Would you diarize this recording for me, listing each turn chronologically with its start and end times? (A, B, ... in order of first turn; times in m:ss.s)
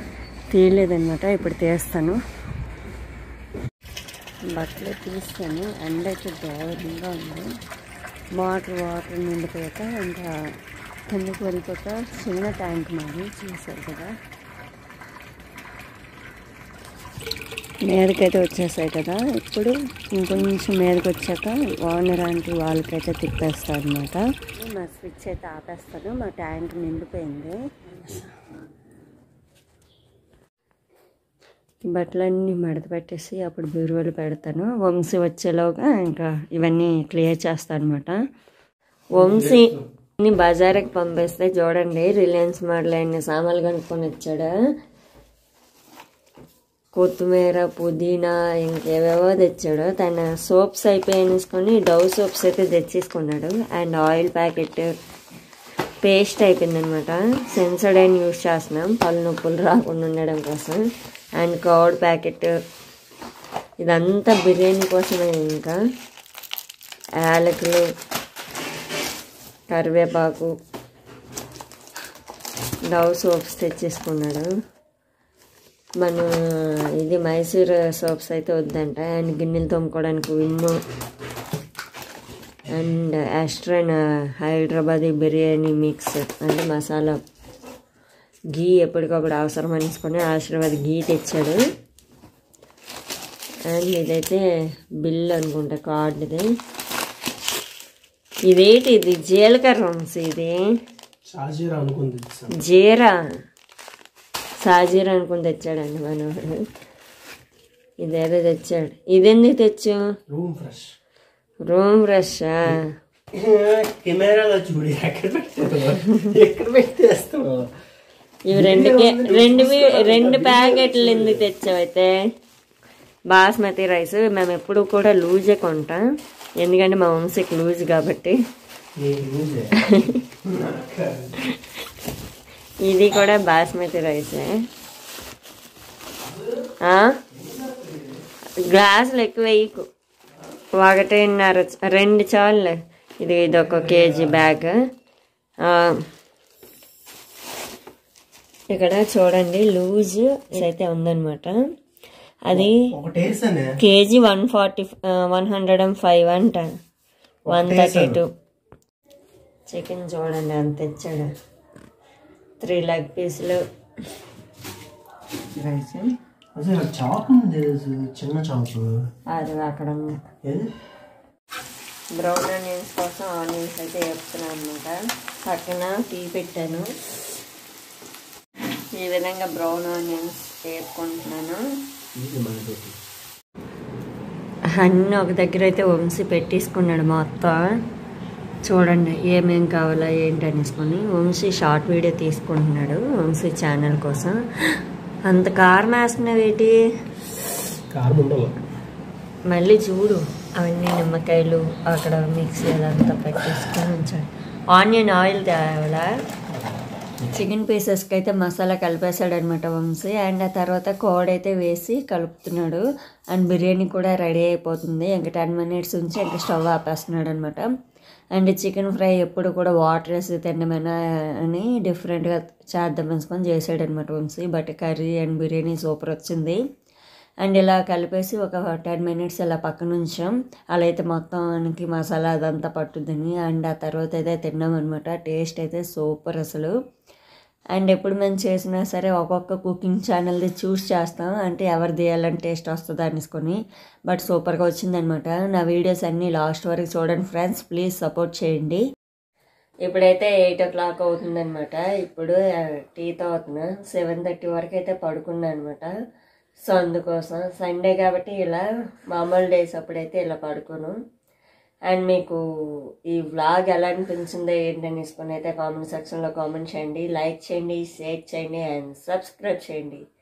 0:00.5-0:02.2 A
0:04.5-0:07.5 A
0:08.4-0:10.3 A
0:11.1-0:14.1 A
0:17.9-0:28.3 A
0:31.8-0:38.2 A
0:39.1-0:39.8 B
0:39.1-0:44.5 A
0:46.9-0:54.9 A
0:56.0-1:00.8 A
1:01.4-1:02.5 A
1:03.8-1:05.8 A
1:07.2-1:07.8 A
1:09.7-1:10.5 A
1:12.9-1:14.5 A
1:16.0-1:16.3 A
1:17.0-1:20.8 A
1:22.7-1:27.2 A
1:28.5-1:31.6 A
1:33.7-1:34.4 A
1:35.0-1:36.4 A
1:38.5-1:40.6 A
1:41.3-1:42.5 B
1:42.6-1:43.2 A
1:44.6-1:46.6 A
1:48.0-1:50.0 A
1:50.3-1:50.9 B
1:51.6-1:52.9 A
1:53.4-1:57.7 B
1:58.5-2:02.2 A
1:58.5-2:01.5 B
2:03.3-2:06.0 A
2:06.6-2:08.4 A
2:09.0-2:09.7 B
2:09.8-2:10.2 A
2:10.4-2:11.4 B
2:12.8-2:14.6 A
2:16.8-2:17.2 A
2:17.3-2:18.2 B
2:18.6-2:19.8 A
2:20.8-2:24.8 A
2:23.5-2:24.5 B
2:25.6-2:26.0 A
2:28.7-2:31.6 A
2:32.5-2:32.8 A
2:32.5-2:33.8 B
2:33.8-2:36.7 A
2:37.5-2:38.2 B
2:37.5-2:38.3 A
2:39.7-2:41.3 A
2:42.6-2:43.6 A
2:45.5-2:46.1 A
2:46.6-2:49.0 B
2:49.3-2:50.2 A
2:50.4-2:50.7 B
2:52.2-2:55.0 A
2:55.5-2:56.9 A
2:58.9-3:01.6 A
3:02.2-3:03.0 B
3:04.8-3:07.7 A
3:08.7-3:14.4 A
3:15.3-3:16.8 A
3:17.9-3:18.6 B
3:19.5-3:26.1 A
3:26.5-3:27.4 B
3:27.3-3:37.7 A
3:38.4-3:46.6 A
3:47.4-3:56.7 A
3:57.7-4:08.8 A
4:09.8-4:15.9 A
4:16.7-4:21.0 A
4:21.9-4:22.4 A
4:23.1-4:30.0 A